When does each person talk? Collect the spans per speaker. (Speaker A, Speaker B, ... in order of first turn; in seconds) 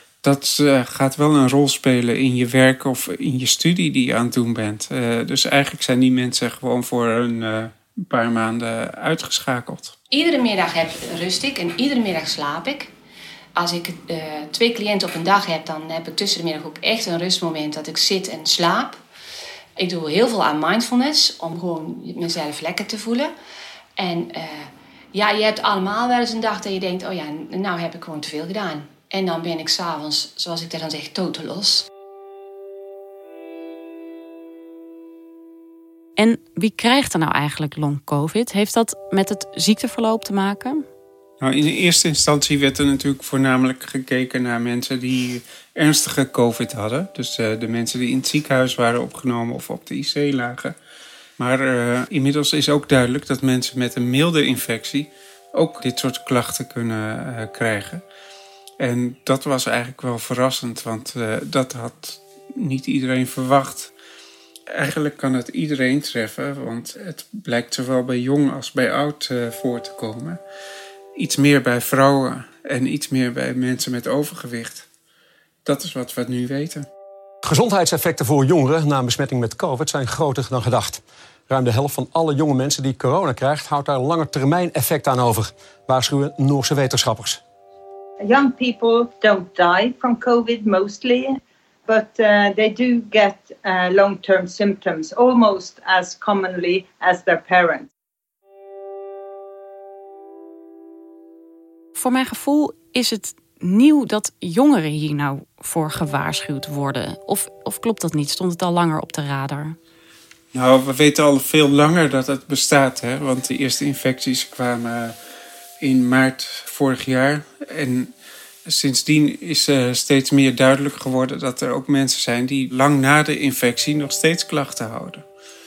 Speaker A: 0.2-9.9, 41.4-50.7, 51.4-58.0, 58.8-63.9, 64.7-70.4, 71.2-74.9, 75.6-76.8, 110.5-115.1, 115.8-118.1, 118.7-125.2
Speaker B: 10.1-12.9, 13.6-19.0, 19.8-23.3, 24.0-31.9
Speaker C: 36.2-40.8, 102.0-109.8
Speaker D: 77.4-87.4
Speaker E: 88.2-91.3, 91.9-97.9